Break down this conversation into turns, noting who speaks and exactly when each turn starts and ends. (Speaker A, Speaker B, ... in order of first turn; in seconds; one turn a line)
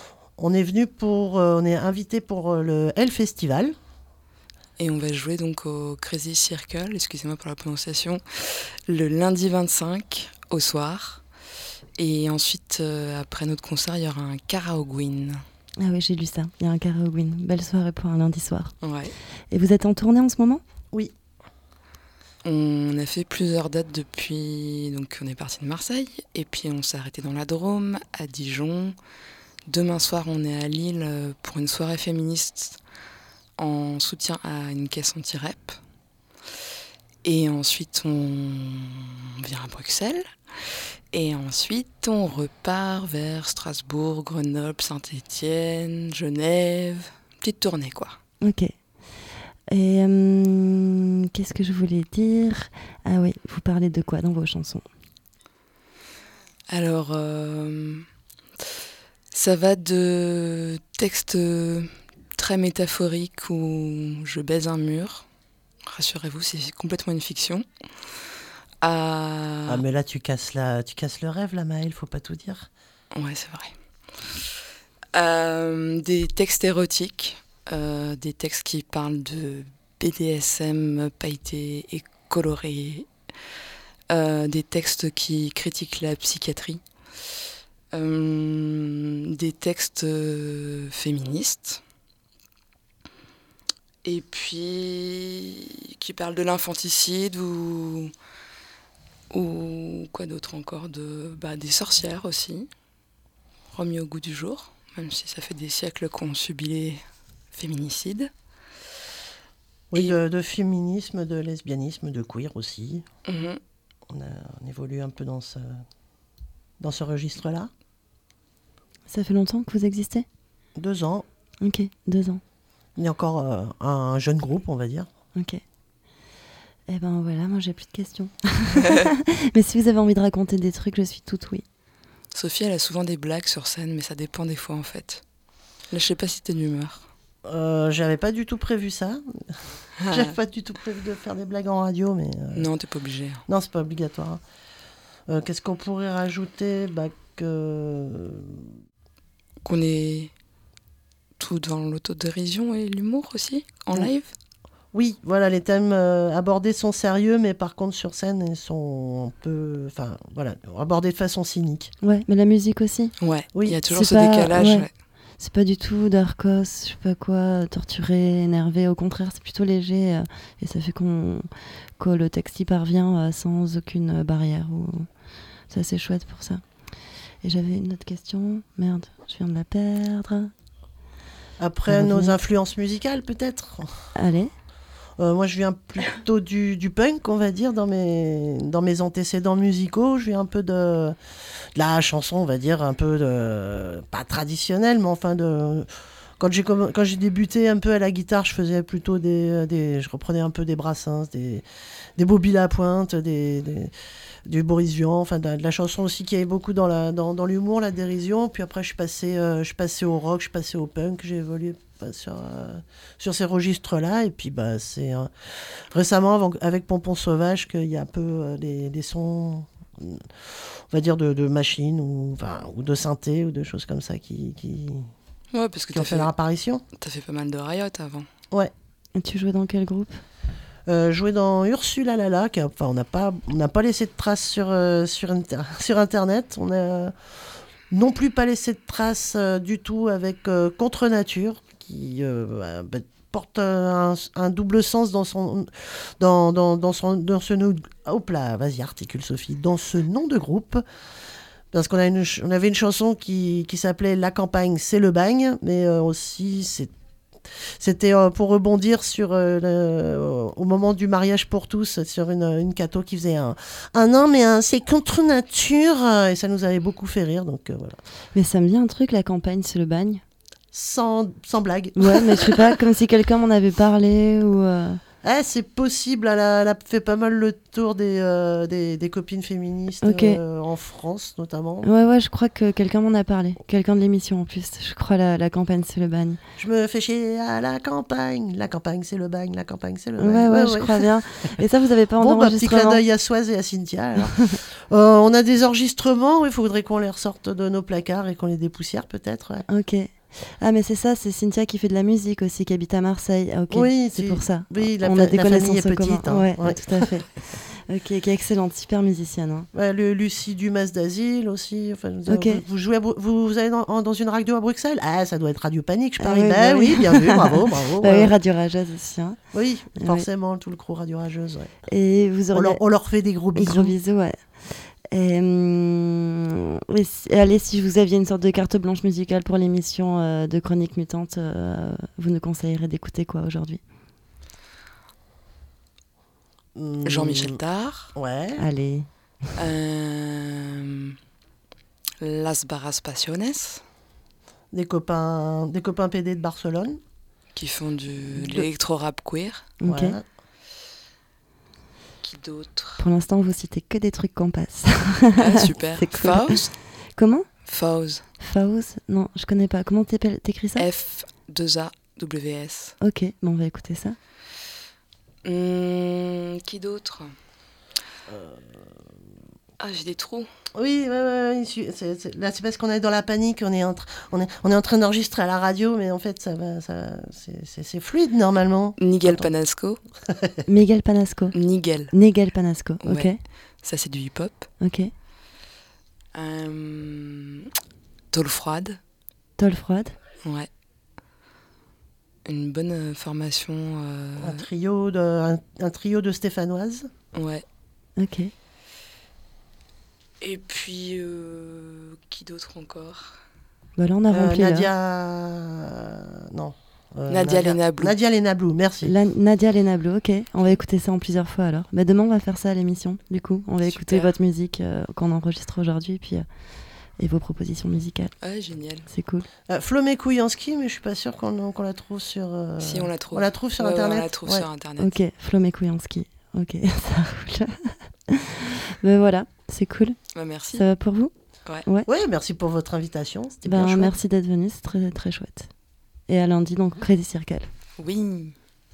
Speaker A: 0.4-3.7
Speaker B: 4.8-11.2
Speaker B: 12.0-15.4
Speaker C: 15.8-18.7
Speaker B: 18.8-19.1
Speaker C: 19.5-20.6
Speaker B: 22.4-28.9
Speaker B: 29.7-32.8
Speaker B: 33.6-35.8
Speaker B: 37.2-40.2
Speaker B: 41.1-48.2
Speaker C: 48.4-48.7
Speaker C: 49.7-54.8
Speaker B: 56.7-58.0
Speaker B: 59.3-65.2
Speaker B: 65.9-67.6
Speaker B: 68.8-69.8
Speaker A: 69.7-72.7
Speaker B: 73.2-73.7
Speaker B: 75.1-83.1
Speaker B: 84.1-86.8
Speaker B: 87.9-91.8
Speaker B: 94.0-98.1
Speaker B: 99.3-102.7
Speaker B: 103.7-107.0
Speaker B: 107.5-108.3
Speaker A: 109.9-113.0
Speaker B: 113.2-113.6
Speaker A: 114.1-115.8
Speaker A: 116.8-117.7
Speaker C: 119.1-120.2
Speaker A: 120.8-121.2
Speaker C: 121.6-122.4
Speaker A: 123.0-125.1
Speaker C: 125.3-125.6
Speaker C: 126.9-131.6
Speaker B: 132.3-135.2
Speaker B: 135.9-137.1
Speaker A: 137.4-139.2
Speaker B: 140.0-140.3
Speaker A: 140.1-142.7
Speaker B: 142.5-143.4
Speaker A: 143.5-144.4
Speaker A: 145.3-148.7
Speaker B: 149.6-150.3
Speaker B: 151.4-154.3
Speaker A: 154.9-161.9
Speaker C: 162.0-163.1
Speaker B: 163.2-164.9
Speaker A: 163.5-163.8
Speaker C: 163.9-164.9
Speaker C: 165.4-175.1
Speaker C: 175.7-176.6
Speaker C: 177.4-180.5
Speaker A: 181.6-183.9
Speaker C: 181.9-182.4
Speaker C: 184.2-184.5
Speaker A: 185.2-191.2
Speaker A: 191.7-201.6
Speaker A: 202.2-203.9
Speaker A: 204.4-215.3
Speaker A: 215.9-225.1
Speaker B: 225.5-226.3
Speaker A: 225.9-226.8
Speaker B: 227.0-228.3
Speaker C: 229.1-230.2
Speaker A: 230.9-237.1
Speaker A: 237.9-250.8
Speaker A: 251.7-256.9
Speaker A: 257.8-268.0
Speaker C: 268.3-270.2
Speaker A: 270.7-272.8
Speaker C: 272.0-275.0
Speaker A: 275.2-281.9
Speaker C: 280.0-280.4
Speaker C: 281.8-286.4
Speaker A: 286.6-291.1
Speaker C: 290.2-293.0
Speaker A: 292.2-299.6
Speaker C: 299.7-309.7
Speaker A: 303.7-307.1
Speaker A: 309.7-318.3
Speaker C: 312.3-312.6
Speaker C: 316.2-319.4
Speaker A: 319.5-321.7
Speaker C: 320.0-320.3
Speaker C: 321.9-322.8
Speaker A: 322.5-323.9
Speaker C: 323.5-333.8
Speaker A: 336.7-337.6
Speaker B: 337.0-338.1
Speaker A: 338.1-338.6
Speaker C: 338.6-339.1
Speaker B: 339.6-341.1
Speaker B: 342.2-343.8
Speaker A: 344.7-347.0
Speaker B: 347.5-349.7
Speaker C: 349.8-350.2
Speaker A: 349.8-350.2
Speaker B: 352.2-353.0
Speaker C: 353.0-357.5
Speaker B: 355.3-356.7
Speaker B: 357.6-358.2
Speaker C: 358.4-360.9
Speaker B: 360.8-362.9
Speaker C: 363.0-364.2
Speaker B: 365.4-367.3
Speaker A: 368.3-368.6
Speaker B: 369.8-370.5
Speaker A: 370.7-379.5
Speaker B: 379.0-380.0
Speaker A: 380.3-380.6
Speaker C: 380.7-381.5
Speaker B: 381.5-382.1
Speaker C: 382.1-383.4
Speaker B: 383.0-383.3
Speaker B: 383.8-384.7
Speaker C: 384.8-385.1
Speaker B: 386.3-387.7
Speaker B: 388.3-389.0
Speaker C: 389.6-390.1
Speaker B: 390.4-390.7
Speaker B: 392.4-394.6
Speaker A: 394.4-397.1
Speaker B: 397.3-397.6
Speaker C: 398.2-398.5
Speaker B: 400.4-403.4
Speaker C: 404.0-404.9
Speaker A: 404.3-409.1
Speaker B: 407.3-408.1
Speaker C: 409.0-416.4
Speaker B: 413.8-414.3
Speaker C: 417.2-418.3
Speaker B: 418.4-419.1
Speaker C: 419.1-419.5
Speaker A: 419.7-424.6
Speaker B: 422.8-425.2
Speaker C: 425.0-430.2
Speaker B: 430.3-430.8
Speaker C: 430.7-431.3
Speaker A: 432.1-434.1
Speaker C: 433.6-435.7
Speaker C: 436.3-437.7
Speaker B: 438.0-438.5